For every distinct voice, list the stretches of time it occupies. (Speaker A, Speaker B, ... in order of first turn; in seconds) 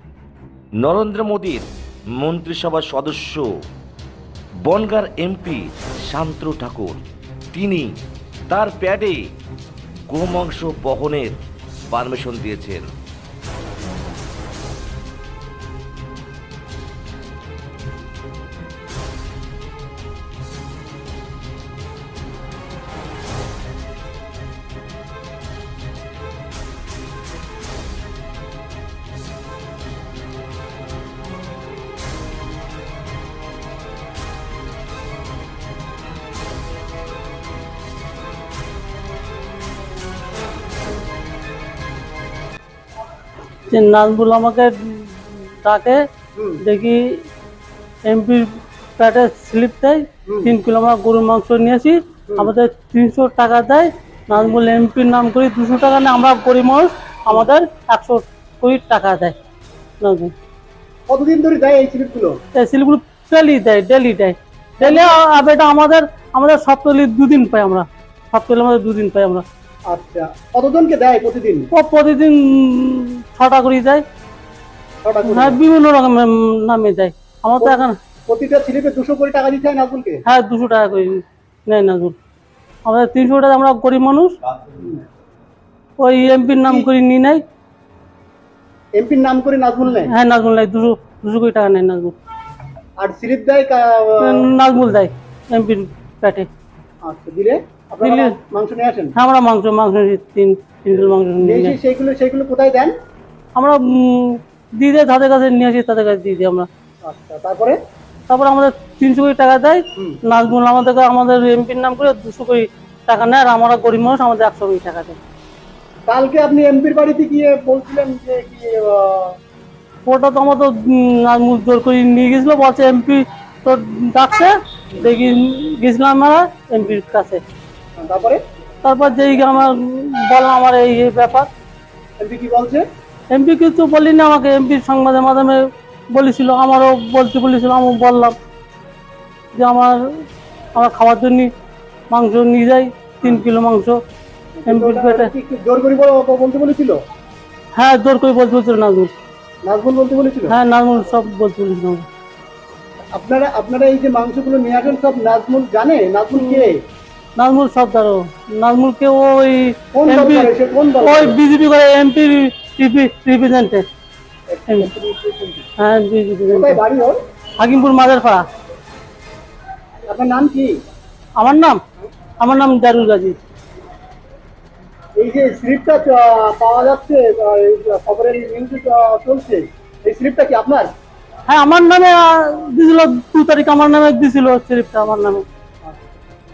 Speaker A: 0.8-1.7, 2.2-3.5, 4.7-7.0, 7.5-7.9, 8.5-9.2, 10.1-11.4, 11.9-12.9
Speaker B: 43.7-46.0, 46.6-47.2, 48.0-59.4, 60.0-60.3, 62.5-69.4, 71.7-74.0, 75.3-78.0, 80.3-82.2, 82.8-84.4, 86.0-87.4, 90.0-92.2, 94.2-96.5, 98.0-98.4, 99.2-101.8, 103.5-106.7, 108.3-115.2, 120.1-127.4, 128.8-131.5, 133.3-138.3, 139.6-140.0, 140.8-141.5, 142.1-144.0, 144.7-145.3, 147.8-149.1, 150.5-152.1, 156.4-156.7, 157.4-163.8, 165.8-166.8, 167.6-168.4, 171.4-171.8, 172.4-173.4, 181.5-185.4
Speaker C: 46.4-46.6, 50.3-50.5, 61.1-62.4, 64.8-65.3, 69.9-71.7, 75.0-75.6, 77.6-80.2, 84.7-85.0, 86.3-86.9, 89.0-90.1, 93.0-94.5, 97.0-99.1, 101.4-102.9, 107.0-107.8, 116.1-119.4, 128.0-128.4, 132.2-132.8, 144.6-147.0, 149.6-150.6, 153.1-156.8, 159.9-161.4, 164.5-165.7, 166.5-167.2, 170.1-170.8, 175.2-180.9